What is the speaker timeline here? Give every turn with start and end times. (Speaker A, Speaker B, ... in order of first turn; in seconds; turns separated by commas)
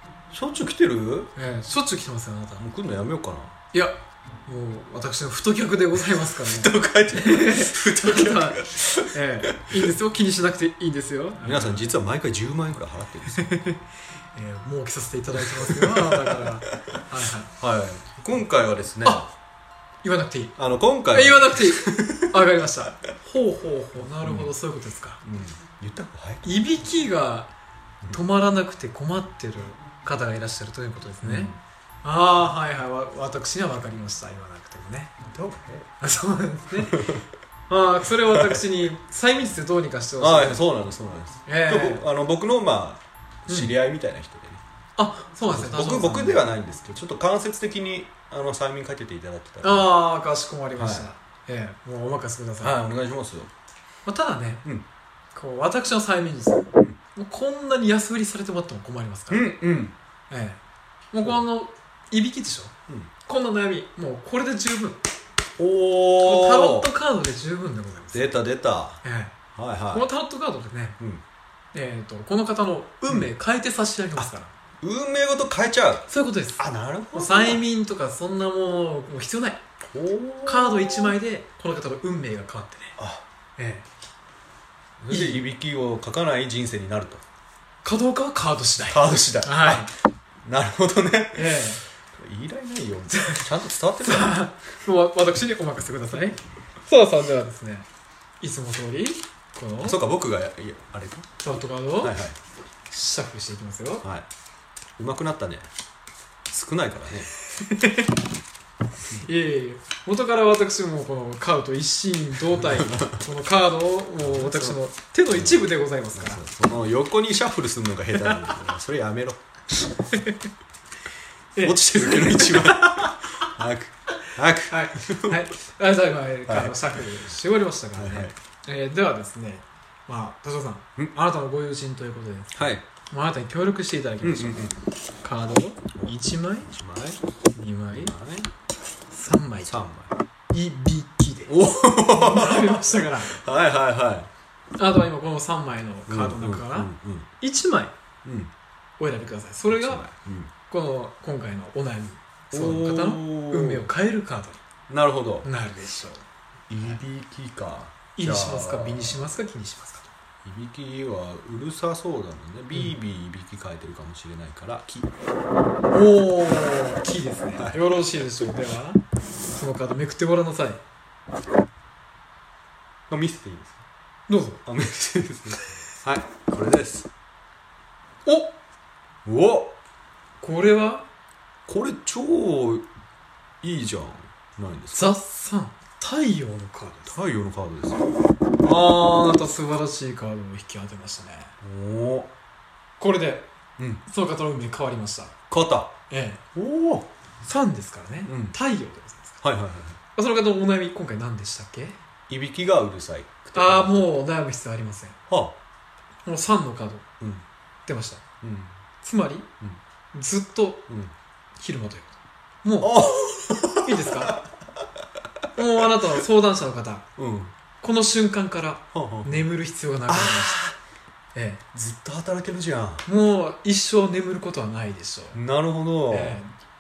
Speaker A: 0.3-1.3, Speaker B: 1.4-2.6, Speaker A: 2.6-3.5, Speaker B: 3.7-11.9, Speaker A: 6.3-9.2, Speaker A: 11.4-13.6, Speaker B: 13.3-13.8, Speaker B: 14.3-17.5, Speaker A: 15.4-16.9, Speaker A: 17.5-19.3, Speaker B: 20.0-20.6, Speaker A: 20.6-22.3, Speaker B: 21.1-25.2, Speaker A: 24.2-24.5, Speaker A: 25.2-26.5, Speaker B: 26.4-27.5, Speaker B: 28.1-31.5, Speaker A: 31.2-31.6, Speaker B: 32.0-35.1, Speaker A: 35.3-35.9, Speaker B: 36.0-37.1, Speaker A: 36.8-37.2, Speaker B: 37.7-40.6, Speaker A: 38.2-38.6, Speaker A: 40.2-44.6, Speaker B: 41.5-42.0, Speaker B: 43.5-43.7, Speaker B: 45.0-46.4, Speaker A: 45.5-49.9, Speaker B: 49.6-52.7, Speaker A: 50.8-51.0, Speaker A: 52.6-53.5, Speaker B: 54.0-54.6, Speaker B: 55.3-59.5, Speaker A: 59.3-59.9, Speaker B: 60.3-60.6, Speaker B: 61.1-62.7, Speaker B: 63.2-65.0, Speaker A: 65.6-66.9, Speaker B: 66.2-68.3, Speaker A: 68.1-70.1, Speaker B: 69.0-69.3, Speaker B: 69.9-71.0, Speaker B: 71.7-74.5, Speaker A: 74.8-77.6, Speaker B: 76.1-79.6, Speaker A: 79.9-81.2, Speaker B: 80.4-83.0, Speaker A: 83.0-83.2, Speaker B: 83.6-83.8, Speaker B: 85.0-85.4, Speaker A: 85.1-87.2, Speaker B: 87.8-89.9, Speaker A: 88.9-89.9, Speaker A: 90.4-91.6, Speaker B: 91.3-91.8, Speaker A: 92.1-94.4, Speaker B: 93.1-93.4, Speaker B: 94.0-97.8, Speaker B: 98.4-100.0, Speaker A: 99.8-101.3, Speaker B: 101.4-102.2, Speaker A: 102.0-102.4, Speaker B: 102.9-104.0, Speaker A: 105.0-105.7, Speaker A: 106.5-107.3, Speaker B: 107.5-108.1, Speaker B: 109.2-116.4, Speaker A: 112.5-113.2, Speaker A: 114.2-114.8, Speaker A: 115.3-119.4, Speaker B: 120.1-120.4, Speaker B: 121.5-123.5, Speaker A: 121.6-125.4, Speaker B: 124.7-134.7, Speaker A: 126.5-127.0, Speaker A: 127.9-128.3, Speaker A: 132.5-132.8, Speaker A: 134.2-134.8, Speaker B: 135.2-136.7, Speaker A: 136.7-137.2, Speaker B: 137.5-138.1, Speaker A: 137.9-138.5, Speaker B: 139.1-139.9, Speaker A: 139.6-140.1, Speaker B: 140.5-143.4, Speaker A: 141.5-144.3, Speaker B: 144.8-147.9, Speaker A: 146.1-147.3, Speaker A: 148.2-148.5, Speaker B: 149.0-150.1, Speaker A: 149.7-150.5, Speaker B: 150.7-154.6, Speaker A: 152.5-153.9, Speaker A: 154.9-155.5, Speaker B: 155.4-156.2, Speaker A: 156.7-159.3, Speaker B: 158.1-160.1, Speaker A: 160.4-165.1, Speaker B: 165.9-170.8, Speaker A: 167.6-168.2, Speaker A: 173.1-173.8, Speaker B: 174.3-174.6, Speaker A: 174.7-177.1, Speaker B: 178.2-178.5, Speaker A: 179.2-179.8, Speaker B: 180.4-181.1, Speaker A: 181.7-182.8, Speaker A: 183.6-185.1, Speaker B: 184.9-187.1, Speaker A: 187.1-188.1, Speaker B: 188.6-191.5, Speaker A: 191.6-192.3, Speaker B: 193.0-193.5, Speaker B: 194.0-195.3, Speaker A: 195.5-195.9, Speaker B: 196.1-196.4, Speaker A: 196.5-197.1, Speaker B: 197.4-199.4, Speaker A: 198.2-198.5, Speaker A: 199.4-200.0, Speaker B: 200.1-202.0, Speaker A: 202.3-204.0, Speaker B: 203.5-205.2, Speaker A: 205.3-205.6, Speaker B: 206.2-207.1, Speaker B: 207.8-208.2, Speaker A: 208.4-208.7, Speaker B: 209.0-209.5, Speaker B: 210.1-210.9, Speaker A: 210.9-211.1, Speaker B: 211.6-213.0, Speaker A: 212.8-214.8, Speaker B: 213.8-214.4, Speaker B: 215.5-217.1, Speaker A: 217.2-217.5, Speaker B: 217.8-220.6, Speaker A: 218.9-219.5, Speaker A: 220.1-220.8, Speaker B: 221.3-221.6, Speaker A: 221.7-223.0, Speaker B: 223.0-225.4, Speaker A: 225.3-226.4, Speaker B: 226.1-226.5